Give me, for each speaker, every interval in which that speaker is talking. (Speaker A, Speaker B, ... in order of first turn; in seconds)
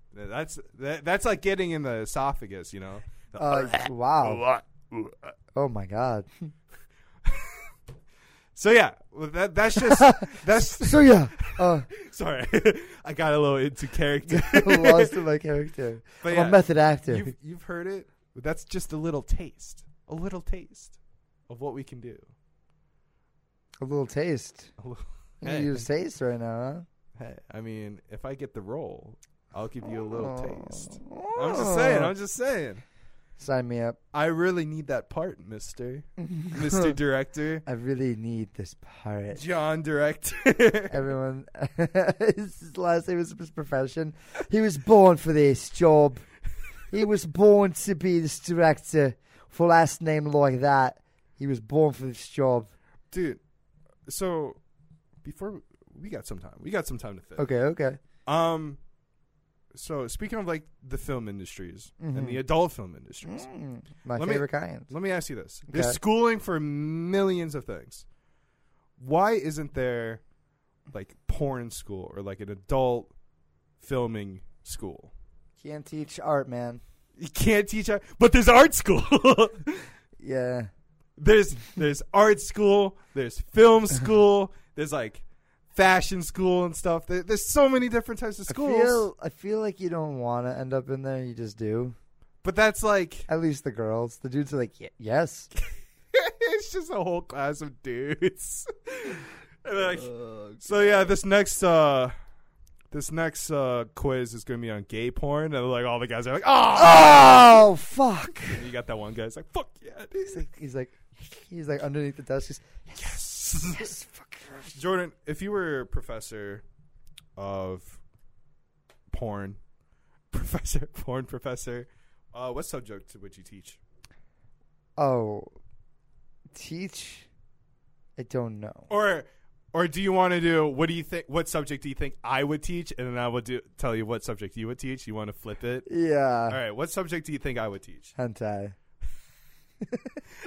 Speaker A: 0.1-5.2, 7.2-7.7, 8.6-15.2, 16.2-21.0, 21.5-22.3, 24.8-25.9, 27.2-32.8, 34.1-37.6, 39.4-41.1, 53.1-53.4, 54.1-54.6, 55.2-57.5, 58.3-58.8, 59.7-63.5, 64.2-68.0, 69.0-70.2, 70.9-73.1, 73.8-75.1, 77.2-79.9, 81.2-89.1, 92.4-93.3, 96.1-102.1, 102.9-107.7, 108.4-110.4, 113.0-114.0, 114.7-116.6, 117.4-118.0, 119.1-119.6, 120.3-123.8, 128.9-135.9, 136.5-138.1
Speaker B: 3.4-4.5, 5.5-6.5, 9.8-11.9, 14.3-17.3, 23.8-24.7, 25.4-26.9, 29.9-32.1, 33.4-34.0, 36.2-37.0, 37.6-39.4, 40.9-46.2, 46.9-52.7, 57.4-58.0, 62.0-62.4, 63.2-64.9, 65.7-66.0, 75.6-76.8, 80.2-80.7, 88.5-92.0, 93.3-95.5, 100.2-100.6, 106.7-108.6, 110.1-114.8, 125.0-125.5, 126.5-127.3, 128.2-128.9, 135.9-136.6, 138.2-138.8, 139.9-140.2